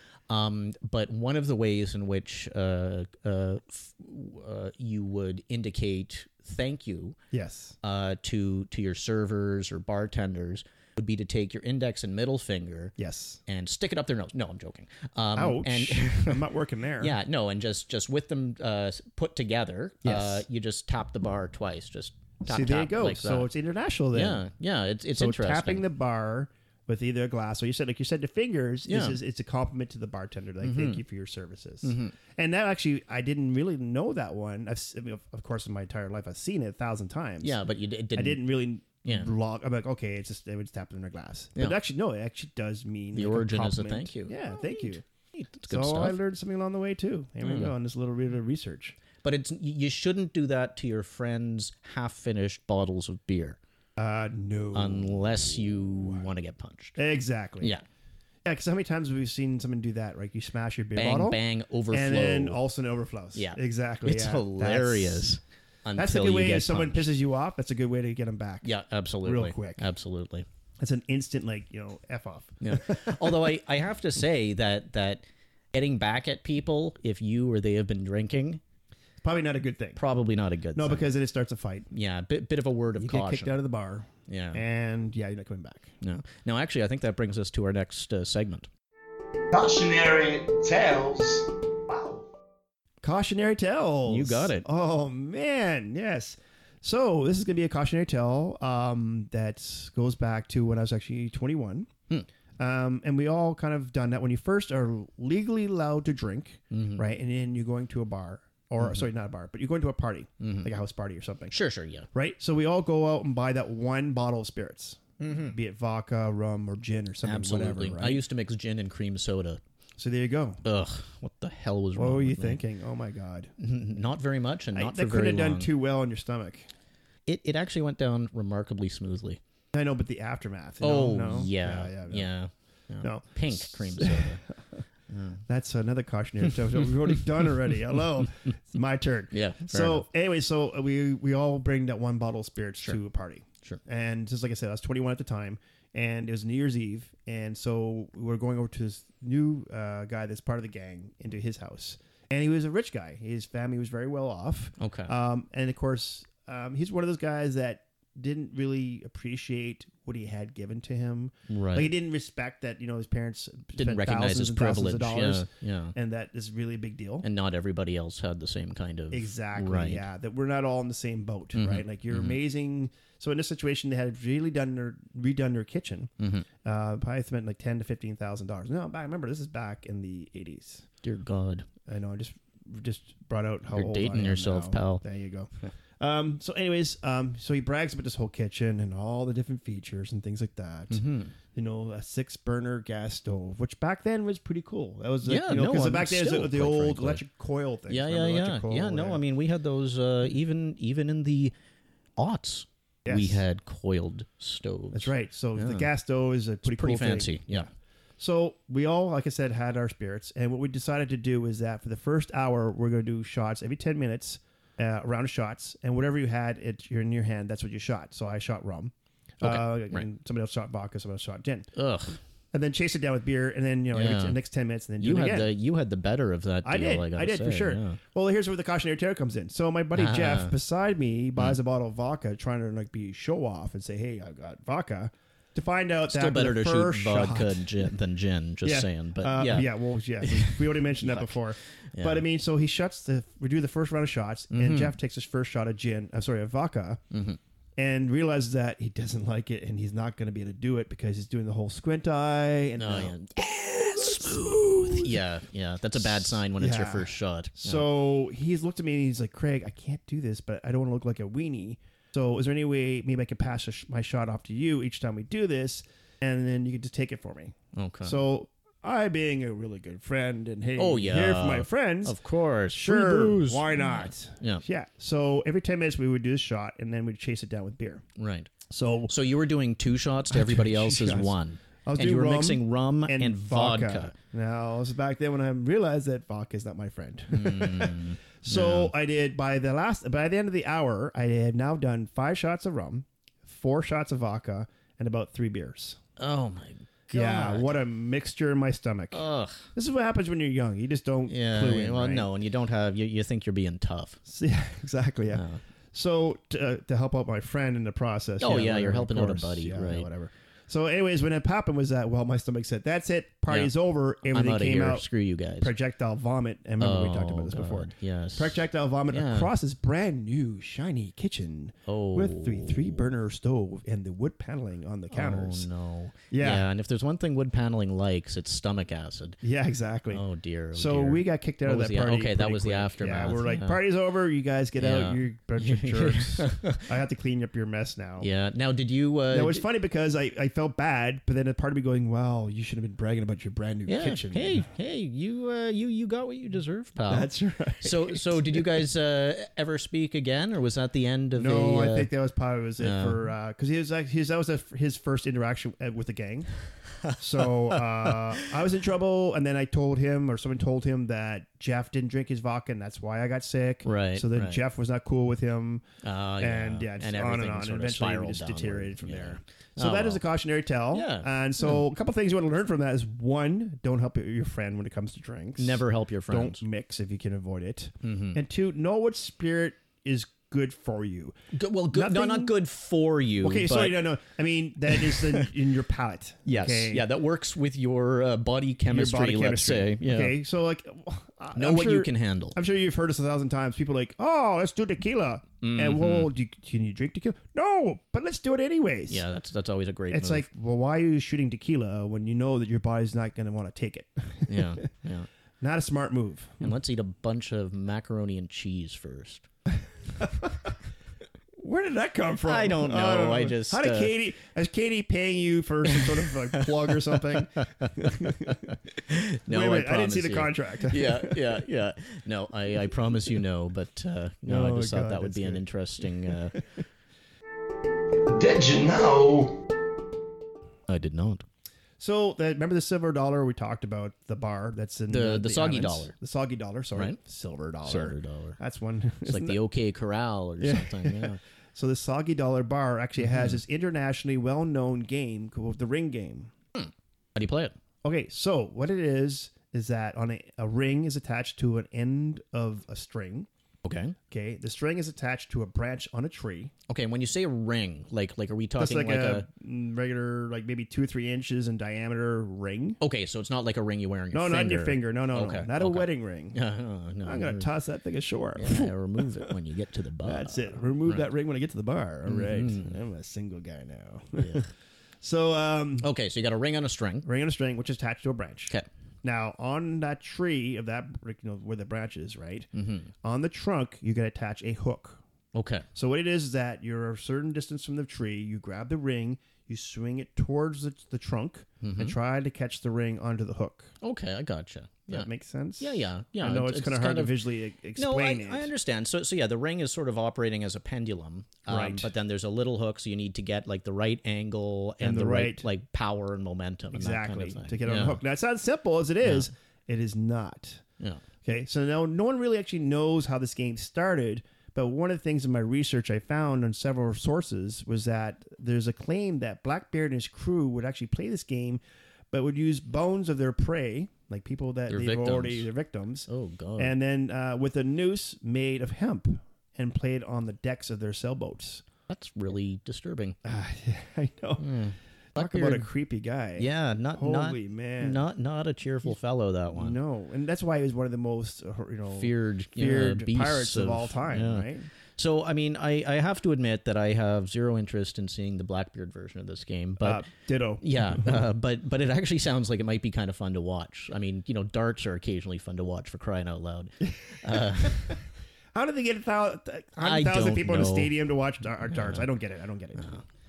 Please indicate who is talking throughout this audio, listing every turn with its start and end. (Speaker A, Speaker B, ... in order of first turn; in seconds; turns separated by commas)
Speaker A: 0.3-7.2, Speaker B: 7.3-7.7, Speaker A: 7.8-12.9, Speaker B: 13.0-13.4, Speaker A: 13.4-16.4, Speaker B: 15.3-17.1, Speaker A: 17.0-23.5, Speaker B: 20.0-20.4, Speaker B: 22.4-24.4, Speaker A: 24.1-25.9, Speaker B: 25.1-37.6, Speaker A: 28.9-29.2, Speaker A: 30.6-31.0, Speaker A: 31.8-32.1, Speaker A: 37.4-38.4, Speaker B: 38.1-45.0, Speaker A: 39.0-39.3, Speaker A: 43.1-44.4, Speaker A: 45.3-46.1, Speaker B: 45.7-49.0, Speaker A: 47.4-47.7, Speaker A: 49.2-53.6, Speaker B: 54.0-55.3, Speaker A: 54.7-57.0, Speaker B: 57.0-57.7, Speaker B: 58.4-61.4, Speaker A: 61.0-62.6, Speaker B: 61.9-65.3, Speaker A: 63.3-67.1, Speaker B: 66.0-68.7, Speaker A: 68.6-70.5, Speaker B: 69.2-69.8, Speaker B: 70.8-73.4, Speaker A: 72.6-78.6, Speaker B: 79.2-80.0, Speaker A: 80.0-81.1, Speaker B: 80.7-81.9, Speaker A: 81.9-83.5, Speaker B: 83.0-85.9, Speaker A: 84.3-84.6, Speaker A: 86.0-88.7, Speaker C: 89.5-92.2, Speaker B: 93.0-101.9, Speaker A: 94.0-94.7, Speaker B: 102.6-111.5, Speaker A: 106.7-107.0, Speaker A: 108.8-109.1, Speaker A: 110.4-110.7, Speaker A: 111.5-112.1, Speaker B: 112.1-118.2, Speaker A: 115.2-115.5, Speaker A: 117.2-119.6, Speaker B: 120.0-120.6, Speaker A: 120.6-122.6, Speaker B: 122.0-123.5, Speaker A: 123.6-125.7, Speaker B: 124.7-126.7, Speaker A: 127.3-129.4, Speaker B: 129.7-132.3, Speaker A: 130.8-134.4, Speaker B: 133.0-134.5, Speaker A: 135.1-135.4, Speaker B: 135.5-167.2, Speaker A: 139.3-140.0, Speaker A: 154.8-155.1, Speaker A: 161.5-161.9, Speaker A: 163.8-165.9, Speaker A: 167.2-170.0, Speaker B: 169.1-176.1, Speaker A: 171.5-172.4, Speaker A: 176.2-176.5, Speaker B: 176.6-180.8, Speaker A: 181.0-181.7, Speaker B: 181.8-199.2, Speaker A: 183.7-185.0, Speaker A: 190.9-191.3, Speaker A: 195.2-197.2, Speaker A: 197.9-201.5, Speaker A: 202.2-205.9, Speaker B: 203.0-203.4, Speaker B: 204.9-207.7, Speaker A: 206.6-207.7, Speaker B: 208.2-221.7, Speaker A: 219.4-220.1, Speaker A: 221.7-222.2, Speaker B: 222.5-225.5, Speaker A: 223.9-224.4, Speaker A: 225.0-228.0, Speaker B: 226.6-237.9, Speaker A: 229.9-230.5, Speaker A: 236.1-241.4, Speaker B: 238.6-247.0, Speaker A: 241.9-242.2, Speaker A: 244.5-244.9, Speaker A: 247.1-247.4, Speaker B: 247.8-255.2, Speaker A: 252.8-257.9, Speaker B: 256.0-272.2, Speaker A: 267.7-268.2, Speaker A: 270.8-274.6, Speaker B: 272.7-278.0, Speaker A: 278.2-278.5, Speaker B: 278.7-279.1, Speaker A: 279.1-284.1, Speaker B: 280.3-296.0, Speaker A: 287.3-288.9, Speaker A: 296.2-297.7, Speaker B: 297.1-299.2, Speaker A: 299.1-299.6, Speaker B: 299.7-302.3, Speaker A: 301.3-304.2, Speaker B: 304.2-315.1, Speaker A: 305.3-305.6, Speaker A: 308.4-310.1, Speaker A: 314.3-315.7, Speaker B: 315.6-325.7, Speaker A: 316.8-319.5, Speaker A: 321.9-323.0, Speaker A: 325.1-329.4, Speaker B: 326.3-326.6, Speaker B: 329.4-338.3, Speaker A: 330.1-333.8, Speaker A: 334.8-336.9, Speaker A: 338.2-339.6, Speaker B: 339.3-344.6, Speaker A: 343.9-347.3, Speaker B: 347.1-348.8, Speaker A: 347.8-352.1, Speaker B: 351.4-356.5, Speaker A: 352.8-353.3, Speaker A: 357.0-358.5, Speaker B: 357.1-365.9, Speaker A: 363.8-364.6, Speaker A: 366.0-370.2, Speaker B: 366.4-381.4, Speaker A: 370.9-371.8, Speaker A: 375.6-376.6, Speaker A: 378.0-378.4, Speaker A: 381.5-384.1, Speaker B: 381.9-382.5, Speaker B: 383.4-387.0, Speaker A: 384.9-385.5, Speaker A: 386.4-390.4, Speaker B: 388.9-399.2, Speaker A: 391.5-392.6, Speaker A: 395.6-396.3, Speaker A: 399.1-400.5, Speaker B: 400.1-404.9, Speaker A: 404.5-405.3, Speaker B: 405.6-406.7, Speaker A: 406.6-409.5, Speaker B: 410.2-410.7, Speaker B: 411.6-418.7, Speaker A: 412.4-414.1, Speaker A: 415.9-426.6, Speaker B: 419.5-421.6, Speaker B: 424.4-425.6, Speaker B: 426.2-426.8, Speaker C: 428.2-429.6, Speaker A: 430.9-431.4, Speaker B: 432.0-439.6, Speaker A: 435.1-436.1, Speaker A: 436.9-437.2, Speaker A: 437.8-438.6, Speaker A: 439.2-441.4, Speaker B: 440.6-446.5, Speaker A: 443.2-443.6, Speaker A: 446.7-447.7, Speaker B: 448.0-453.5, Speaker A: 453.8-454.1, Speaker B: 454.3-456.7, Speaker A: 456.9-459.4, Speaker B: 458.8-463.0, Speaker A: 463.0-467.7, Speaker B: 464.3-466.6, Speaker B: 467.2-469.5, Speaker A: 468.6-471.2, Speaker B: 470.2-474.7, Speaker A: 472.2-472.9, Speaker A: 474.4-474.6, Speaker B: 475.2-476.1, Speaker A: 476.0-477.3, Speaker B: 477.2-482.7, Speaker A: 482.7-483.1, Speaker B: 483.2-485.2, Speaker A: 485.5-485.9, Speaker B: 485.9-493.9, Speaker A: 491.8-492.1, Speaker A: 494.0-495.3, Speaker B: 495.1-498.7, Speaker A: 495.8-497.4, Speaker A: 497.9-508.2, Speaker B: 501.7-502.1, Speaker B: 505.0-505.7, Speaker B: 506.9-510.8, Speaker A: 509.2-509.5, Speaker B: 511.4-531.8, Speaker A: 524.9-525.7, Speaker A: 526.3-526.9, Speaker A: 532.1-533.4, Speaker B: 533.4-534.7, Speaker A: 534.6-535.9, Speaker B: 535.3-538.2, Speaker A: 536.6-540.0, Speaker B: 539.7-544.9, Speaker A: 542.1-550.2, Speaker B: 550.0-551.4, Speaker A: 550.8-558.2, Speaker B: 557.5-558.2, Speaker B: 558.7-563.2, Speaker A: 560.0-561.1, Speaker A: 561.9-562.2, Speaker A: 563.0-563.2